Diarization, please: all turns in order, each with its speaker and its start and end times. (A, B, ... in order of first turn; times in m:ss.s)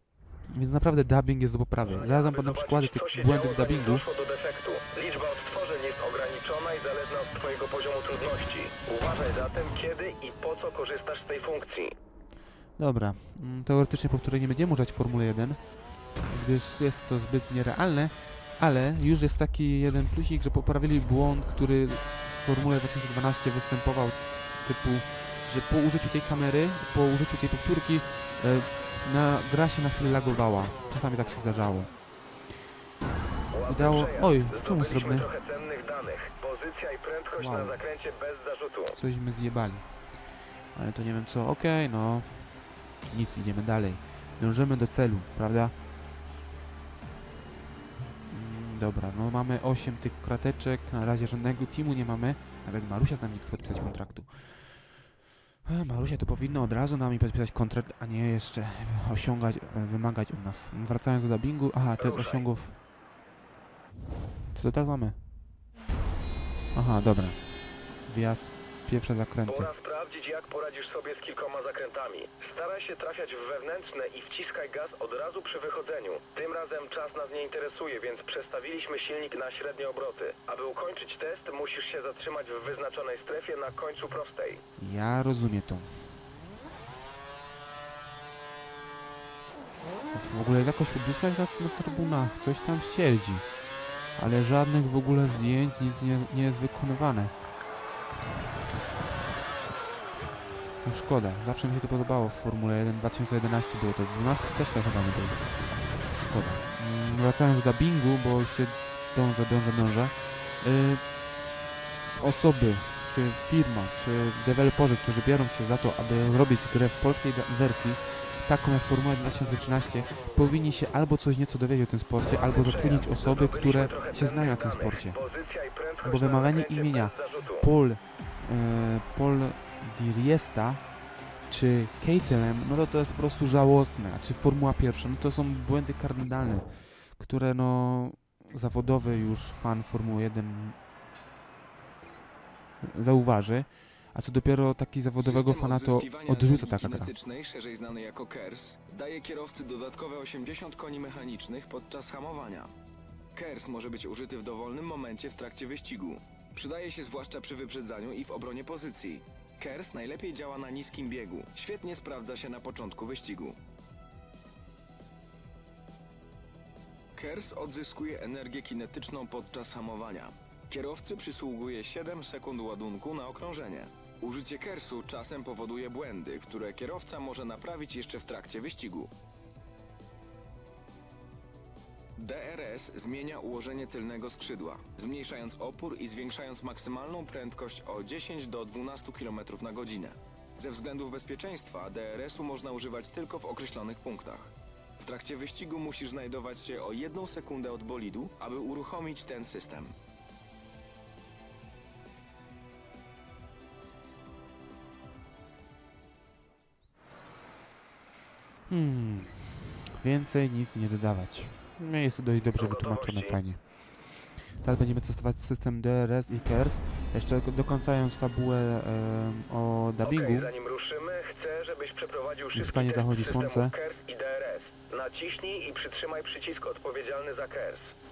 0:00.5-0:04.0 A
0:01.9-0:11.9 B
0:12.8-0:31.9 A
0:33.5-0:39.0 B
0:33.6-0:35.3 A
0:37.4-0:37.8 A
0:38.9-0:45.7 A
0:48.3-0:55.0 A
0:55.6-1:02.8 A
1:02.0-1:02.5 B
1:04.5-1:05.2 A
1:06.7-1:09.7 A
1:09.5-1:24.6 B
1:24.8-1:26.1 A
1:30.1-1:37.3 A
1:40.8-1:51.4 A
1:52.2-2:05.2 A
2:02.2-2:07.7 B
2:06.0-2:20.8 A
2:22.8-2:27.1 A
2:25.2-2:32.7 C
2:33.3-2:43.6 C
2:47.1-2:59.1 C
3:02.2-3:19.9 C
3:28.7-3:40.5 A
3:32.6-3:33.4 B
3:40.0-3:47.9 B
3:42.5-3:43.7 A